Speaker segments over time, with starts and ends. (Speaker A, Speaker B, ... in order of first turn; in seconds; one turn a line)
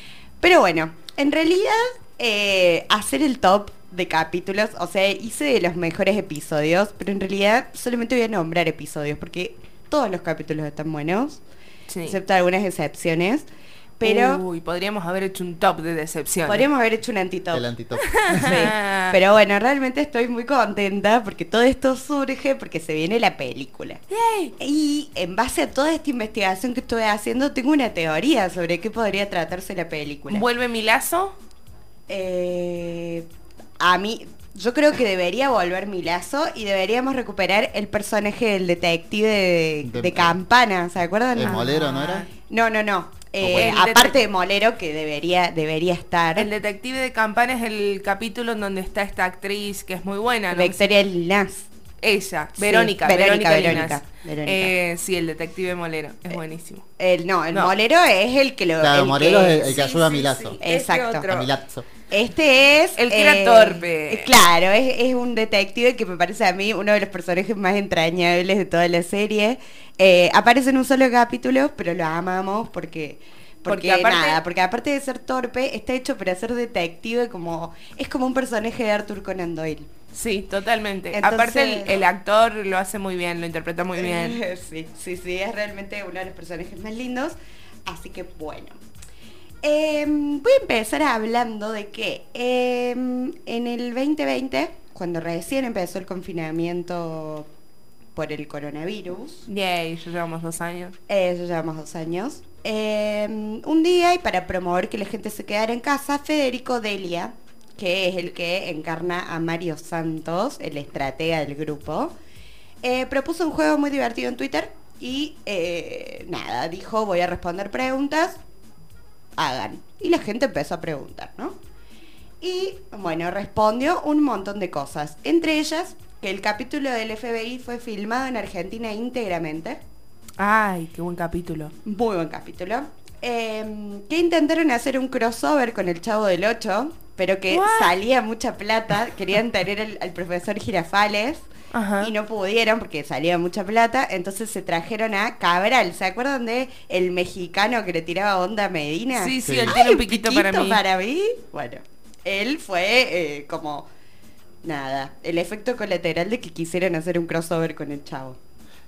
Speaker A: 0.4-11.4
Speaker B: 11.9-12.2
Speaker A: 12.0-13.5
Speaker A: 14.0-14.4
Speaker B: 14.0-16.7
Speaker A: 16.4-17.7
Speaker C: 17.5-18.5
Speaker B: 18.2-19.1
Speaker A: 18.3-24.0
Speaker B: 24.1-24.5
Speaker A: 24.6-30.4
Speaker B: 30.3-31.3
Speaker A: 32.1-33.2
Speaker A: 33.8-41.7
Speaker C: 39.8-40.4
Speaker C: 41.3-42.3
Speaker B: 41.4-42.3
Speaker A: 42.5-46.5
Speaker B: 43.4-44.2
Speaker B: 46.4-50.8
Speaker A: 50.5-51.7
Speaker B: 52.0-56.8
Speaker A: 52.6-54.7
Speaker A: 57.0-59.8
Speaker C: 58.8-60.6
Speaker B: 59.6-61.5
Speaker A: 60.6-61.3
Speaker C: 61.3-61.8
Speaker A: 62.1-79.9
Speaker B: 63.0-64.3
Speaker B: 73.7-74.4
Speaker B: 80.1-84.4
Speaker A: 81.1-82.0
Speaker A: 84.0-88.8
Speaker A: 89.6-97.5
Speaker A: 98.1-99.4
Speaker B: 99.5-100.9
Speaker A: 101.1-112.1
Speaker A: 112.8-118.4
Speaker A: 119.4-121.6
Speaker A: 122.4-129.8
Speaker B: 130.4-131.7
Speaker A: 131.8-141.4
Speaker B: 137.5-137.9
Speaker B: 141.7-142.1
Speaker A: 142.0-153.9
Speaker B: 149.2-150.8
Speaker C: 149.4-149.8
Speaker A: 154.6-158.4